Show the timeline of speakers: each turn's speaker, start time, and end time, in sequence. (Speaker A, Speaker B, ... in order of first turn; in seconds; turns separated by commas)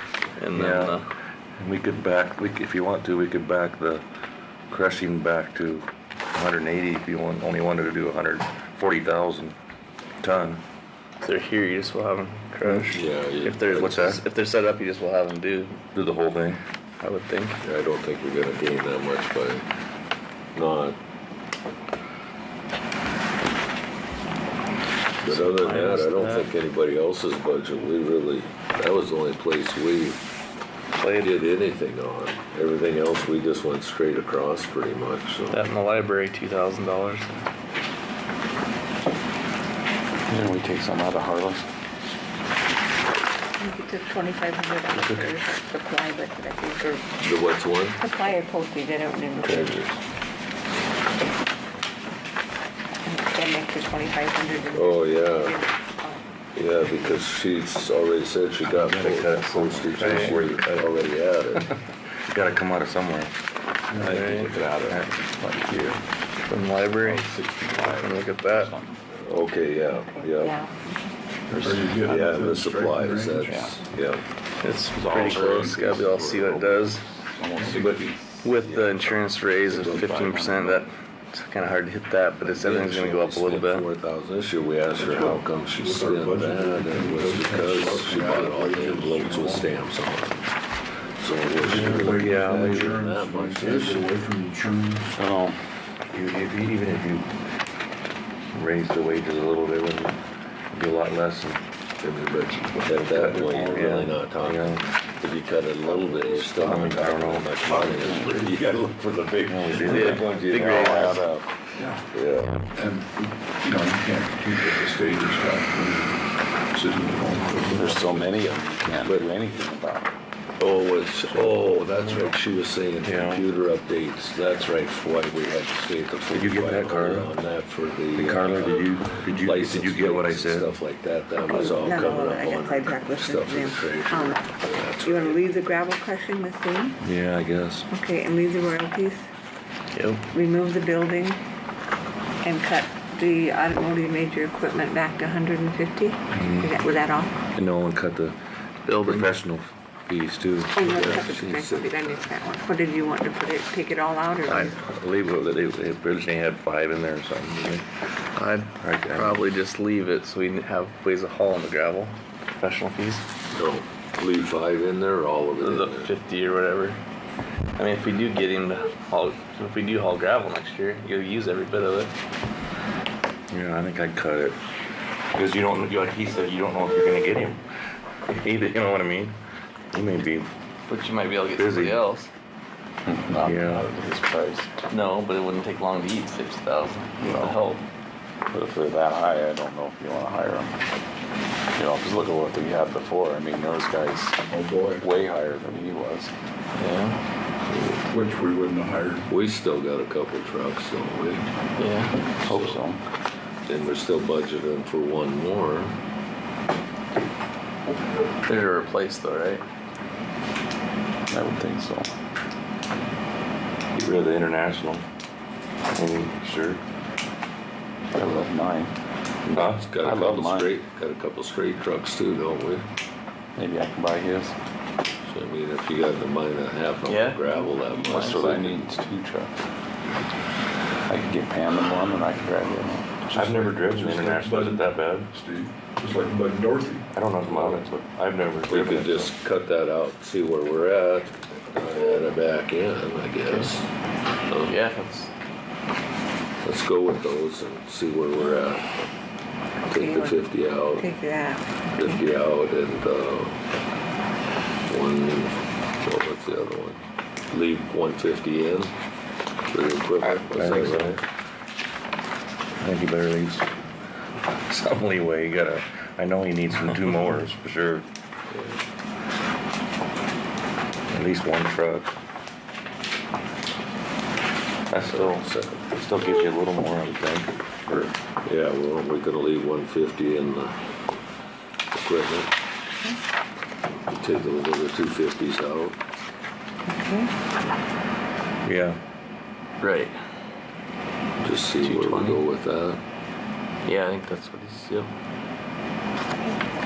Speaker A: 0.3-1.1, Speaker B: 0.5-1.0, Speaker B: 1.6-4.0, Speaker B: 4.7-9.5, Speaker B: 10.2-10.6, Speaker A: 11.2-15.8, Speaker C: 12.9-14.2, Speaker B: 13.8-14.2, Speaker B: 15.9-16.6, Speaker A: 17.0-17.6, Speaker C: 17.6-19.6, Speaker C: 20.5-21.0, Speaker A: 25.2-26.5, Speaker C: 25.2-30.2, Speaker C: 31.0-35.6, Speaker A: 35.5-37.3, Speaker D: 40.3-41.6, Speaker E: 43.6-47.2, Speaker C: 47.2-48.0, Speaker E: 48.0-49.9, Speaker C: 49.4-49.9, Speaker E: 53.0-56.2, Speaker C: 54.7-55.6, Speaker C: 56.5-61.7, Speaker B: 58.6-61.0, Speaker A: 60.0-60.4, Speaker B: 62.2-63.3, Speaker F: 63.9-64.2, Speaker D: 63.9-66.0, Speaker A: 64.0-64.6, Speaker A: 66.5-68.7, Speaker D: 67.0-69.0, Speaker C: 69.1-70.6, Speaker E: 70.4-71.0, Speaker F: 71.5-73.7, Speaker C: 71.7-74.2, Speaker A: 74.6-77.0, Speaker D: 74.9-78.4, Speaker C: 75.2-75.8, Speaker F: 77.5-78.0, Speaker A: 78.4-83.9, Speaker D: 79.7-80.8, Speaker C: 82.4-90.5, Speaker F: 85.0-89.8, Speaker C: 91.2-94.1, Speaker F: 91.6-95.2, Speaker D: 95.1-95.6, Speaker B: 96.1-97.3, Speaker B: 98.5-100.2, Speaker B: 100.7-101.6, Speaker C: 102.0-108.9, Speaker B: 103.1-104.8, Speaker B: 106.6-107.6, Speaker F: 107.6-108.5, Speaker D: 107.7-111.5, Speaker B: 109.5-110.0, Speaker A: 109.8-111.2, Speaker C: 110.0-111.2, Speaker F: 111.8-112.0, Speaker C: 112.1-112.6, Speaker F: 112.7-116.2, Speaker F: 116.7-118.3, Speaker D: 117.7-120.1, Speaker C: 120.6-135.4, Speaker B: 123.0-123.4, Speaker B: 126.3-127.3, Speaker B: 128.2-130.7, Speaker E: 131.3-137.0, Speaker B: 137.0-137.9, Speaker E: 137.9-139.2, Speaker A: 139.9-140.2, Speaker E: 140.3-141.4, Speaker E: 142.4-147.4, Speaker B: 146.3-146.7, Speaker B: 147.5-148.4, Speaker A: 148.8-149.3, Speaker B: 149.0-150.8, Speaker E: 150.7-154.9, Speaker C: 150.8-152.3, Speaker A: 154.5-154.7, Speaker B: 154.8-157.8, Speaker A: 158.3-163.2, Speaker B: 158.8-159.4, Speaker C: 163.5-166.1, Speaker A: 165.6-167.0, Speaker A: 167.7-172.1, Speaker B: 173.5-174.6, Speaker B: 175.3-177.6, Speaker B: 178.3-179.4, Speaker B: 179.9-180.5, Speaker A: 180.9-182.3, Speaker B: 181.6-182.0, Speaker D: 183.0-184.7, Speaker B: 183.4-183.9, Speaker A: 184.9-187.8, Speaker D: 187.2-187.5, Speaker D: 188.5-190.8, Speaker D: 191.7-194.4, Speaker F: 194.5-195.1, Speaker D: 194.9-196.3, Speaker A: 196.7-197.2, Speaker F: 198.0-199.3, Speaker C: 199.3-201.5, Speaker A: 201.8-202.3, Speaker D: 202.4-203.0, Speaker C: 203.7-206.0, Speaker A: 208.4-209.6, Speaker D: 211.3-212.1, Speaker B: 213.9-215.0, Speaker B: 215.9-216.8, Speaker D: 218.1-218.9, Speaker B: 219.5-219.9, Speaker C: 219.5-222.9, Speaker D: 220.0-220.7, Speaker D: 223.6-224.6, Speaker C: 225.2-228.8, Speaker A: 227.0-227.4, Speaker A: 228.0-228.5, Speaker D: 228.1-229.5, Speaker D: 231.1-233.2, Speaker F: 233.2-237.1, Speaker B: 233.3-235.3, Speaker B: 237.1-239.3, Speaker C: 237.4-237.9, Speaker C: 238.7-243.9, Speaker A: 243.4-243.7, Speaker C: 244.5-244.7, Speaker A: 244.6-245.3, Speaker C: 246.6-249.1, Speaker E: 248.3-248.7, Speaker E: 249.9-252.2, Speaker C: 249.9-251.1, Speaker C: 251.9-253.6, Speaker C: 254.9-258.9, Speaker C: 259.7-261.2, Speaker B: 260.4-261.1, Speaker B: 262.8-263.7, Speaker B: 264.5-268.1, Speaker B: 271.1-272.1, Speaker B: 274.9-277.5, Speaker C: 275.0-275.9, Speaker C: 278.4-280.9, Speaker C: 281.9-282.5, Speaker C: 284.1-286.0, Speaker E: 286.9-287.3, Speaker B: 288.6-289.0, Speaker A: 289.8-290.1, Speaker C: 291.4-293.0, Speaker A: 291.8-292.4, Speaker A: 293.8-295.1